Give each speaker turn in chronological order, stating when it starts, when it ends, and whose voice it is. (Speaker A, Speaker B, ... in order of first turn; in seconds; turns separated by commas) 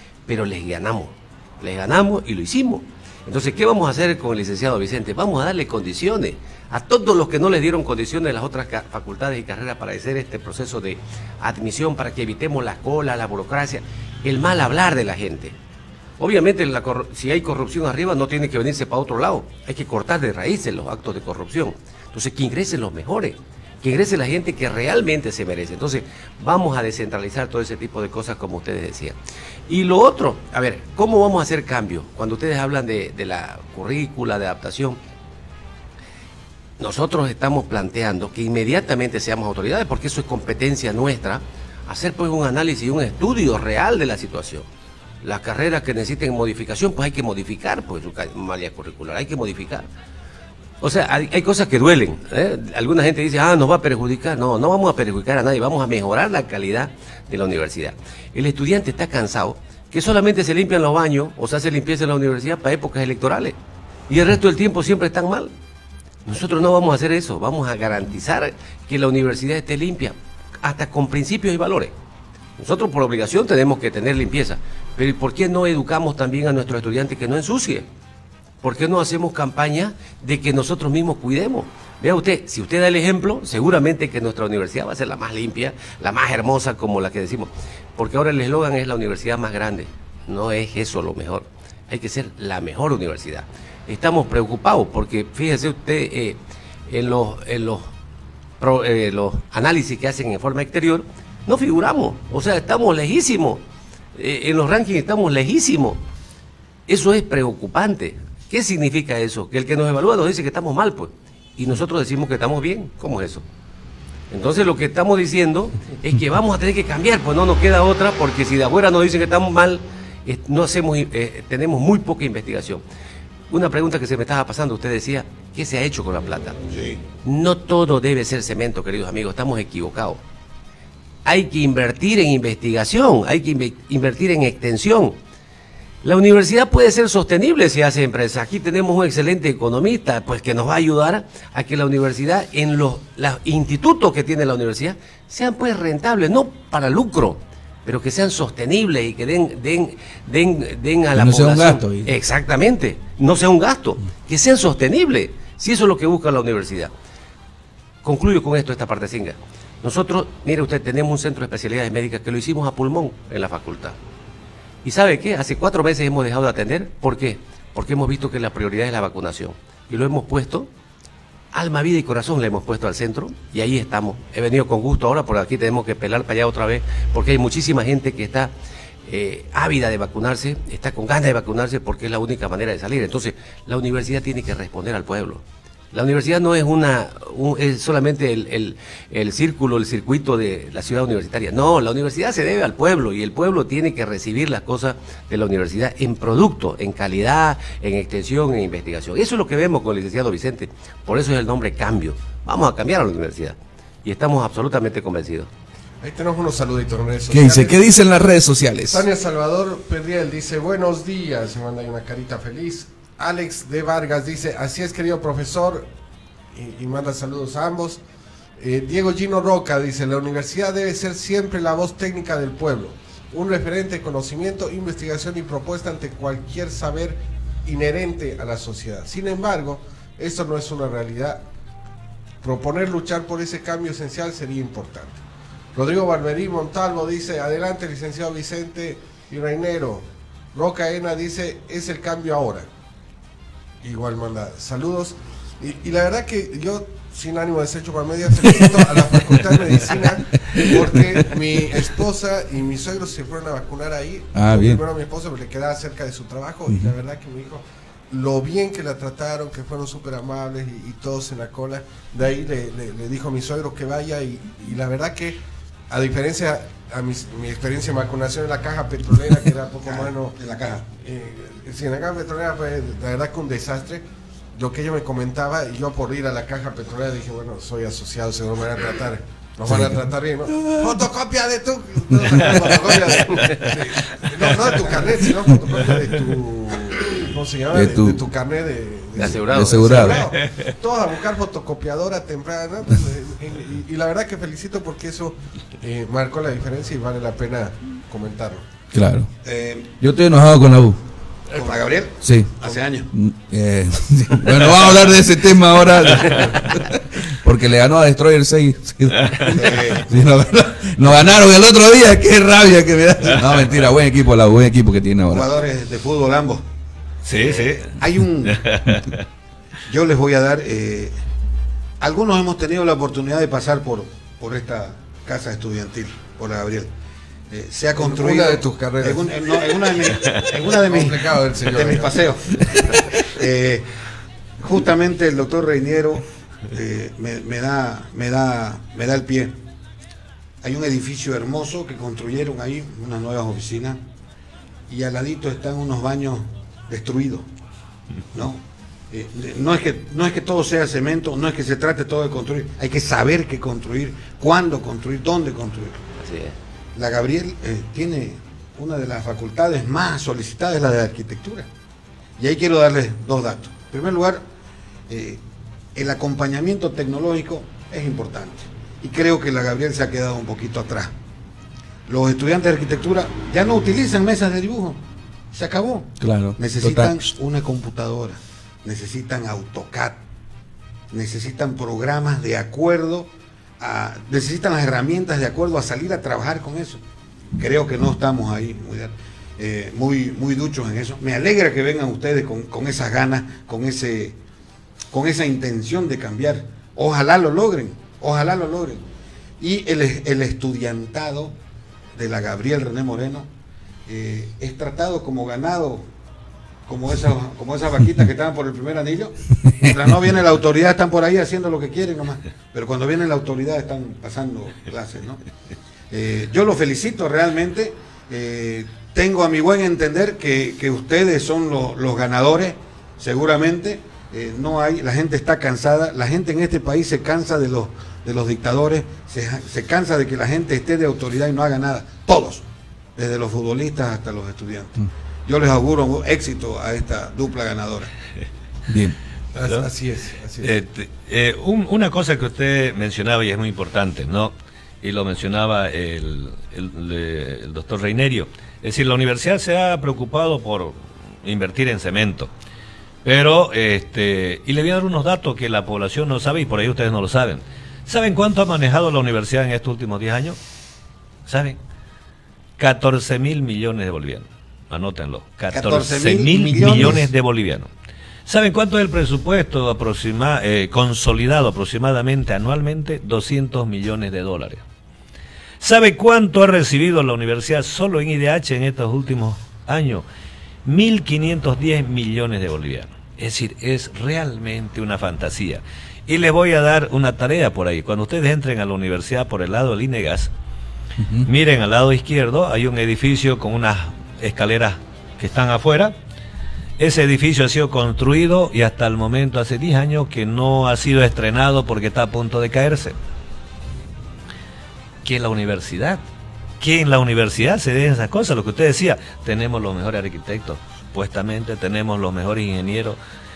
Speaker A: 0.3-15.5, Speaker A: 16.2-29.2, Speaker A: 29.7-35.0, Speaker A: 36.8-44.7, Speaker A: 45.2-49.9, Speaker A: 50.8-63.6, Speaker A: 64.1-65.5, Speaker A: 66.2-71.9, Speaker A: 72.6-77.9, Speaker A: 78.6-97.9, Speaker A: 98.6-103.6, Speaker A: 104.1-106.0, Speaker A: 106.9-113.4, Speaker A: 114.3-122.8, Speaker A: 123.5-126.6, Speaker B: 126.7-127.0, Speaker A: 127.2-130.2, Speaker A: 131.2-135.2, Speaker A: 136.0-156.9, Speaker C: 151.1-152.1, Speaker A: 158.0-163.9, Speaker A: 164.8-170.7, Speaker A: 171.5-178.5, Speaker A: 179.0-205.5, Speaker D: 206.0-207.8, Speaker C: 207.3-209.0, Speaker D: 208.9-215.9, Speaker D: 216.5-218.0, Speaker D: 218.6-231.4, Speaker D: 232.4-235.2, Speaker D: 235.7-242.7, Speaker D: 243.8-274.0, Speaker C: 254.3-254.8, Speaker B: 269.9-270.8, Speaker D: 274.5-298.6, Speaker C: 279.7-280.0, Speaker C: 287.7-288.2, Speaker A: 289.1-290.2, Speaker C: 289.5-290.2, Speaker C: 298.9-299.3, Speaker B: 299.4-299.9, Speaker C: 300.0-301.0, Speaker D: 301.5-301.8, Speaker B: 301.5-303.1, Speaker C: 302.2-302.5, Speaker C: 303.1-315.5, Speaker B: 309.5-310.1, Speaker B: 315.3-316.6, Speaker E: 317.2-317.9, Speaker B: 317.5-318.6, Speaker E: 318.5-319.2, Speaker B: 319.9-321.1, Speaker B: 322.0-326.9, Speaker B: 327.5-333.9, Speaker D: 328.0-329.2, Speaker D: 330.8-332.1, Speaker B: 334.6-339.6, Speaker B: 340.6-344.0, Speaker B: 344.9-347.5, Speaker B: 348.3-356.0, Speaker A: 356.2-356.5, Speaker B: 356.9-361.7, Speaker B: 362.4-364.4, Speaker B: 365.1-365.4, Speaker B: 365.9-371.1, Speaker B: 372.1-375.0, Speaker B: 375.5-380.2, Speaker C: 376.2-377.2, Speaker B: 381.1-387.0, Speaker B: 387.6-394.4, Speaker B: 395.1-399.0, Speaker B: 399.6-401.5, Speaker B: 402.1-403.5, Speaker B: 404.1-406.1, Speaker B: 406.9-415.4, Speaker B: 416.1-432.6, Speaker B: 433.1-438.1, Speaker C: 438.9-439.1, Speaker D: 439.5-440.8, Speaker E: 440.6-452.5, Speaker E: 453.2-460.6, Speaker E: 461.4-461.8, Speaker E: 462.8-467.9, Speaker B: 465.7-467.3, Speaker E: 468.4-474.8, Speaker E: 475.8-480.2, Speaker E: 480.8-490.5, Speaker C: 491.2-491.5, Speaker E: 491.4-496.1, Speaker E: 497.0-503.1, Speaker E: 505.2-506.2, Speaker E: 506.8-513.2